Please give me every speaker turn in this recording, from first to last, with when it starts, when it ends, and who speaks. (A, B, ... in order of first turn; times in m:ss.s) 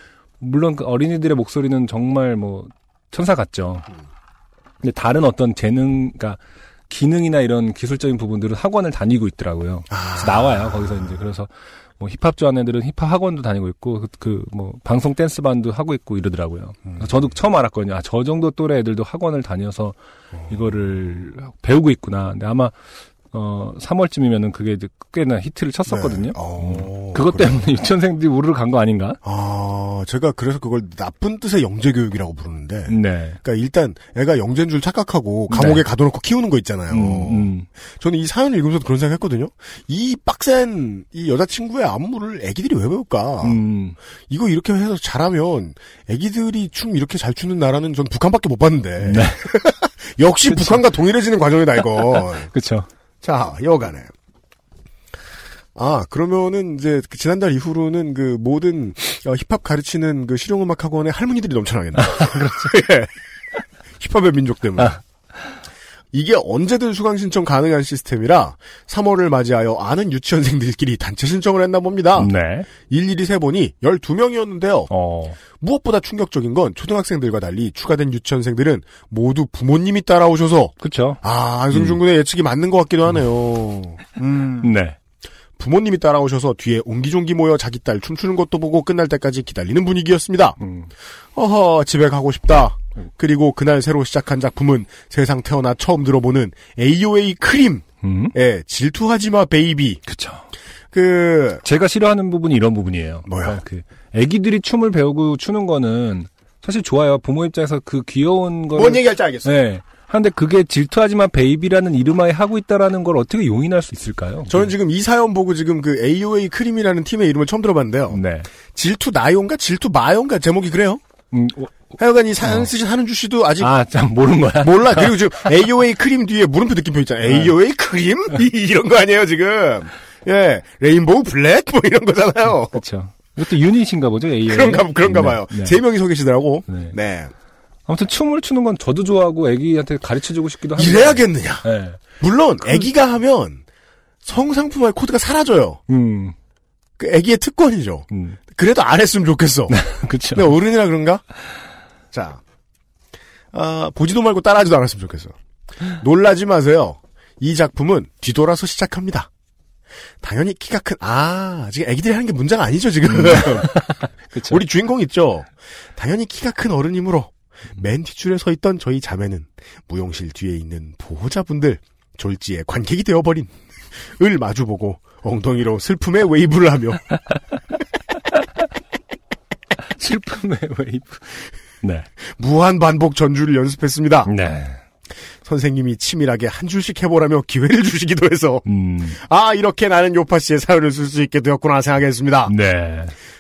0:00.4-0:03.9 A
0:04.8-0:22.8 A
0:09.9-0:11.2 B
0:23.3-0:29.2 A
0:25.9-0:27.7 B
0:29.2-0:43.6 B
0:32.9-0:33.4 A
0:35.5-0:35.8 A
0:36.9-0:37.7 A
0:43.4-0:44.0 A
0:44.3-0:52.5 B
0:49.0-0:49.6 A
0:50.5-0:50.8 A
0:51.9-0:52.9 A
0:53.2-0:54.1 B
0:55.8-1:03.1 B
1:02.0-1:02.7 A
1:04.0-1:05.0 B
1:06.1-1:12.3 B
1:12.2-1:12.7 A
1:12.9-1:14.9 B
1:14.9-1:15.4 A
1:15.6-1:24.7 B
1:20.8-1:21.2 A
1:24.6-1:25.0 A
1:25.6-1:30.6 B
1:30.6-1:30.9 A
1:31.4-1:40.0 B
1:38.0-1:38.4 A
1:40.1-1:40.4 A
1:40.9-1:41.6 B
1:41.6-1:54.7 A
1:43.3-1:43.6 B
1:48.7-1:49.5 B
1:54.5-2:01.0 B
1:58.1-1:58.5 A
2:01.3-2:01.8 A
2:02.0-2:03.8 B
2:02.4-2:02.7 A
2:03.6-2:05.5 A
2:04.6-2:12.8 B
2:07.2-2:07.5 A
2:12.6-2:15.8 A
2:14.4-2:17.3 B
2:16.7-2:17.0 A
2:17.9-2:22.0 A
2:20.8-2:21.7 B
2:22.2-2:23.6 B
2:24.2-2:25.8 B
2:25.9-2:26.4 A
2:27.0-2:29.8 B
2:28.1-2:28.4 A
2:29.7-2:30.5 A
2:30.3-2:31.2 B
2:32.1-2:32.4 B
2:33.5-2:35.4 B
2:35.9-2:39.3 B
2:40.2-2:43.8 B
2:43.1-2:44.6 A
2:44.4-2:53.5 B
2:54.0-2:57.0 B
2:59.9-3:02.1 A
3:02.4-3:04.3 B
3:04.3-3:04.8 A
3:05.4-3:12.5 B
3:08.6-3:09.2 A
3:12.5-3:13.1 A